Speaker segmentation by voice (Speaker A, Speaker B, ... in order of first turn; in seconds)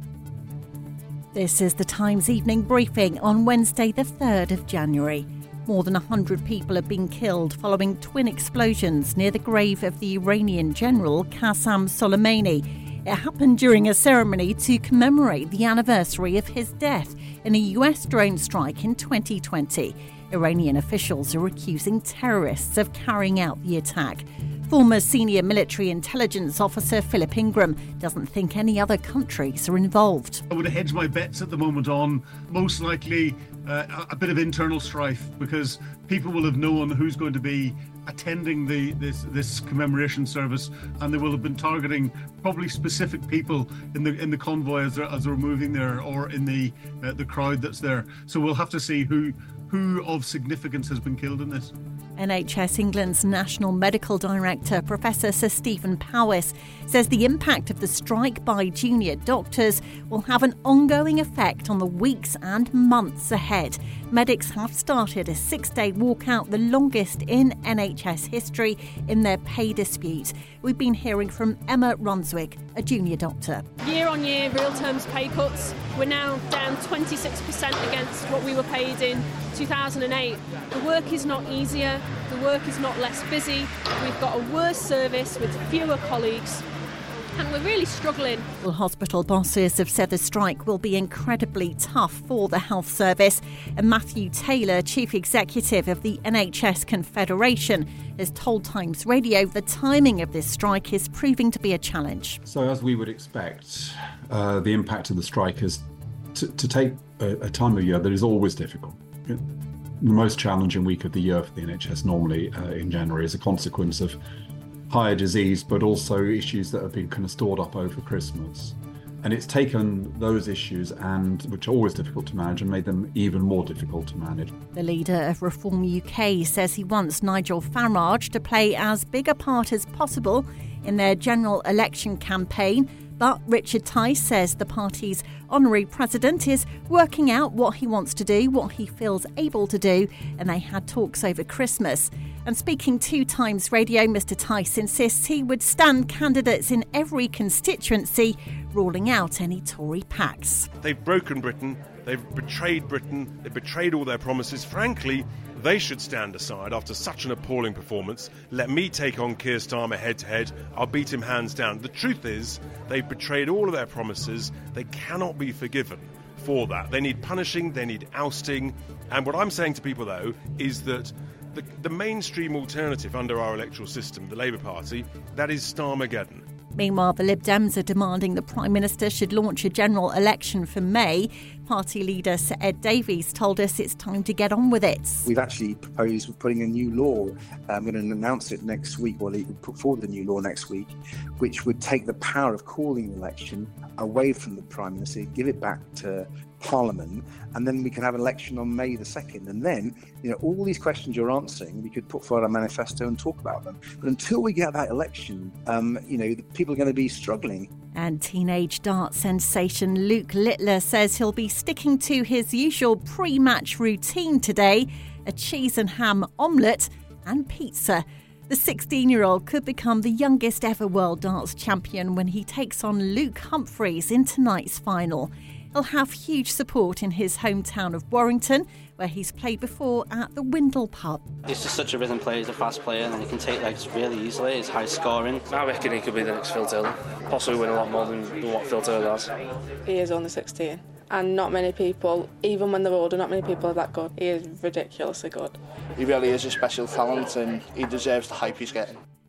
Speaker A: 1.3-30.4, 52.2-73.7, 88.6-102.4, 124.8-150.7, 176.8-185.3, 207.9-231.2
Speaker B: 30.5-51.7
Speaker C: 73.8-86.6, 87.3-88.5
Speaker D: 102.5-109.4, 110.0-114.2, 114.9-124.5
Speaker E: 150.8-176.4
Speaker F: 185.2-207.7
Speaker G: 231.5-235.4
Speaker H: 235.5-239.3
Speaker I: 239.8-245.6
Speaker J: 246.0-248.8